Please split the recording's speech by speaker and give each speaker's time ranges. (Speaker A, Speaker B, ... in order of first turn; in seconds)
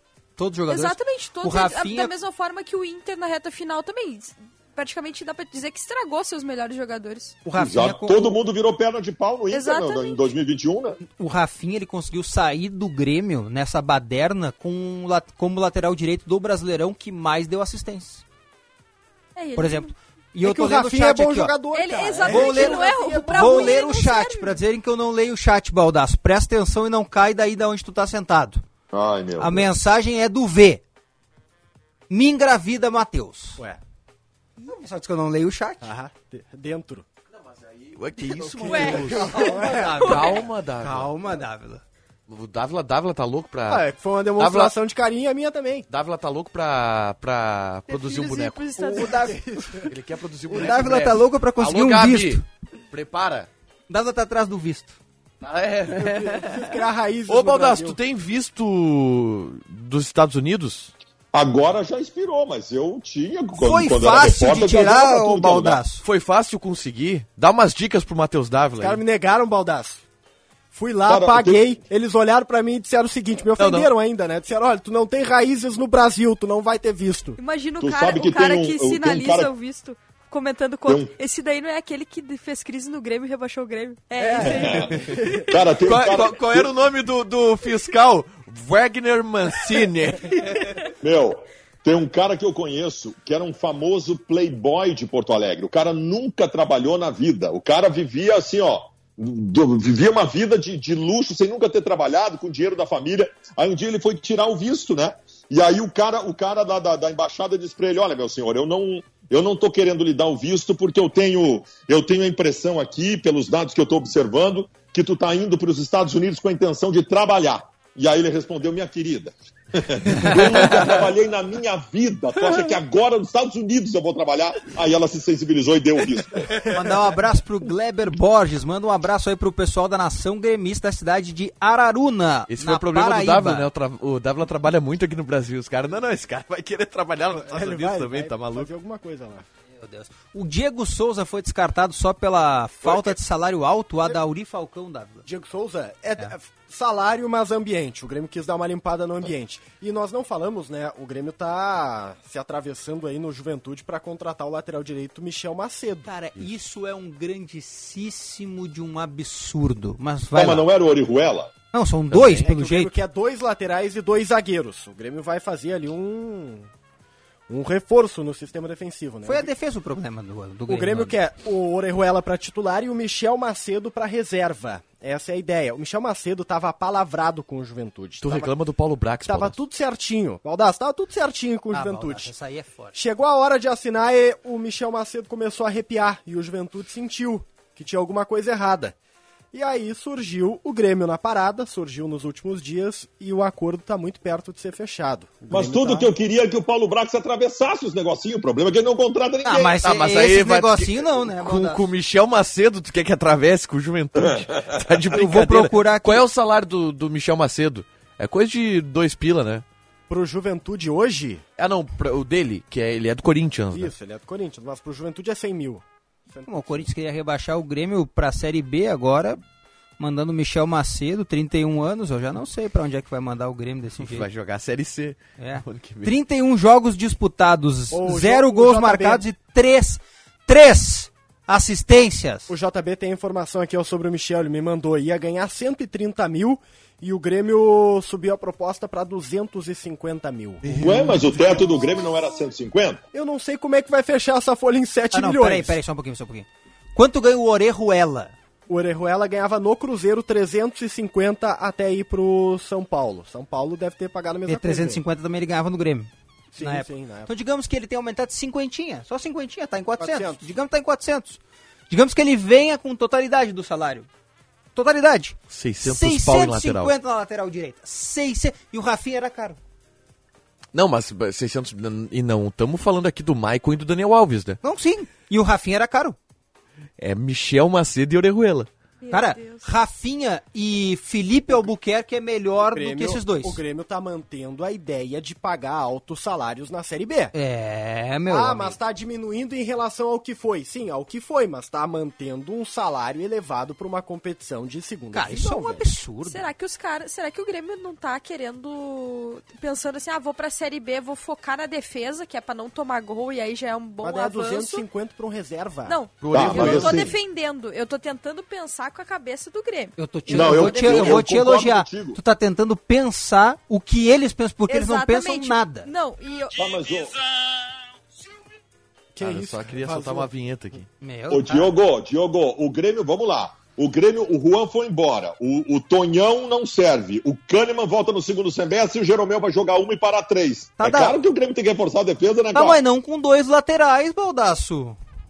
Speaker A: 0.4-2.1, 7.5-8.4, 11.0-18.2, 19.6-21.6, 22.2-28.6, 29.4-30.8, 32.1-33.6, 34.7-35.9, 38.2-41.8, 49.0-49.2, 50.5-52.5, 53.9-55.0, 63.5-66.0, 126.7-133.7, 139.8-145.3, 156.1-160.7, 161.7-162.9, 169.2-171.2, 181.7-182.9, 199.4-201.9, 205.1-206.2, 216.4-219.4, 220.0-224.3, 225.4-232.5, 240.7-241.2, 245.1-248.3, 254.4-261.4, 261.9-264.1, 264.7-269.6, 274.6-276.2, 279.1-283.6, 287.3-288.8, 295.1-296.5, 310.0-315.9, 321.0-321.7, 330.8-331.2, 332.5-335.0
Speaker B: 0.7-7.4, 9.5-10.3, 19.4-19.9, 21.7-24.6, 38.7-39.5, 47.9-49.4, 77.4-84.9, 279.0-279.7, 296.2-304.9, 305.9-309.9, 314.7-316.7
Speaker C: 7.5-11.0, 28.9-29.7, 61.3-65.8, 71.0-71.8, 77.8-79.5, 85.5-86.7, 91.0-126.6, 160.3-161.5, 195.5-199.8, 240.8-243.0, 306.3-307.1, 310.3-312.2, 316.6-317.2, 321.3-332.8
Speaker D: 20.4-23.8, 35.8-37.0, 38.6-40.4, 43.7-45.9, 48.8-49.9, 55.9-58.0, 68.8-70.0, 70.7-77.4, 84.2-85.5, 137.4-139.4, 145.3-156.1, 162.4-166.7, 167.5-169.5, 170.7-178.5, 179.3-182.3, 182.9-188.9, 189.5-196.1, 210.1-211.4, 213.7-216.9, 227.9-229.2, 232.5-241.7, 243.1-245.8, 248.7-255.0, 256.5-257.3, 260.0-260.4, 282.7-287.3, 288.3-295.9, 304.0-306.0, 319.2-320.3
Speaker E: 37.4-41.1, 42.3-44.7, 45.9-48.8, 49.9-53.5, 55.4-60.9, 66.0-69.0, 73.6-73.9, 85.8-90.6, 132.5-138.7, 162.1-162.4, 178.2-179.6, 199.8-209.6, 211.6-213.9, 224.0-226.1, 265.5-266.9, 270.7-274.6, 277.0-278.7, 306.2-307.1, 310.8-311.1, 319.2-320.9